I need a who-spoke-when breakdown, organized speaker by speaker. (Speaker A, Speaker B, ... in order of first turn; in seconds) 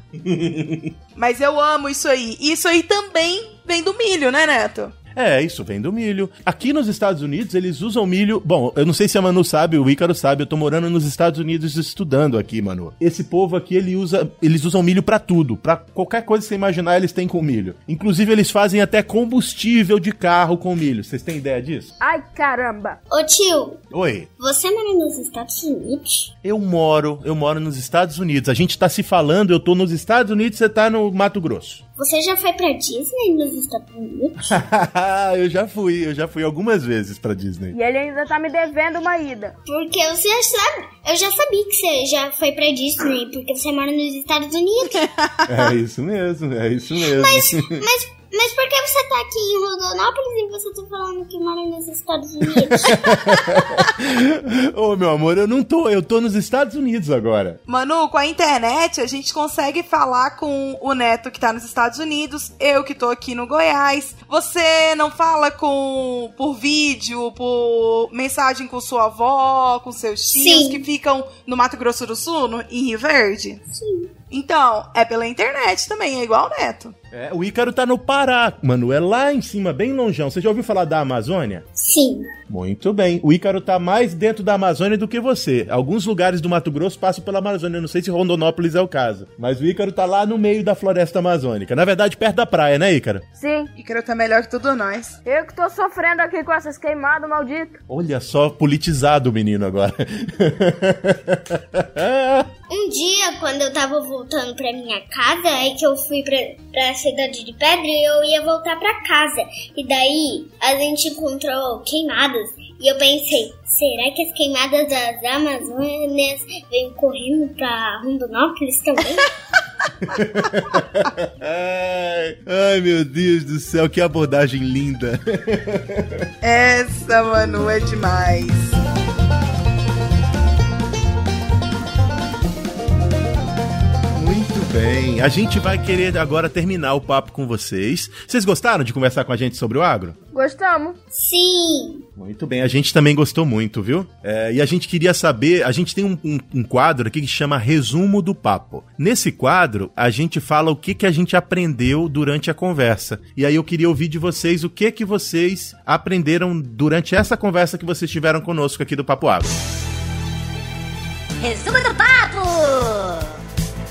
Speaker A: 0.2-0.9, 5.2-21.9, 23.9-24.3, 26.4-31.8, 34.5-37.8, 45.5-47.8, 52.7-57.6, 77.1-81.7, 82.5-93.2, 97.9-102.5, 120.0-126.3, 134.1-140.2, 142.2-159.5
Speaker B: 1.2-5.0, 45.0-45.7, 57.7-73.6, 74.3-77.0, 93.8-95.2, 126.4-128.8
Speaker C: 22.0-23.0, 37.7-39.6, 93.4-93.7, 95.3-97.8, 140.3-141.0
Speaker D: 23.1-23.8, 24.4-26.3, 32.0-34.5, 39.7-45.1, 47.0-53.0, 70.3-70.8, 73.7-74.1, 81.8-82.3, 102.7-119.3, 141.1-142.1
Speaker E: 161.4-163.4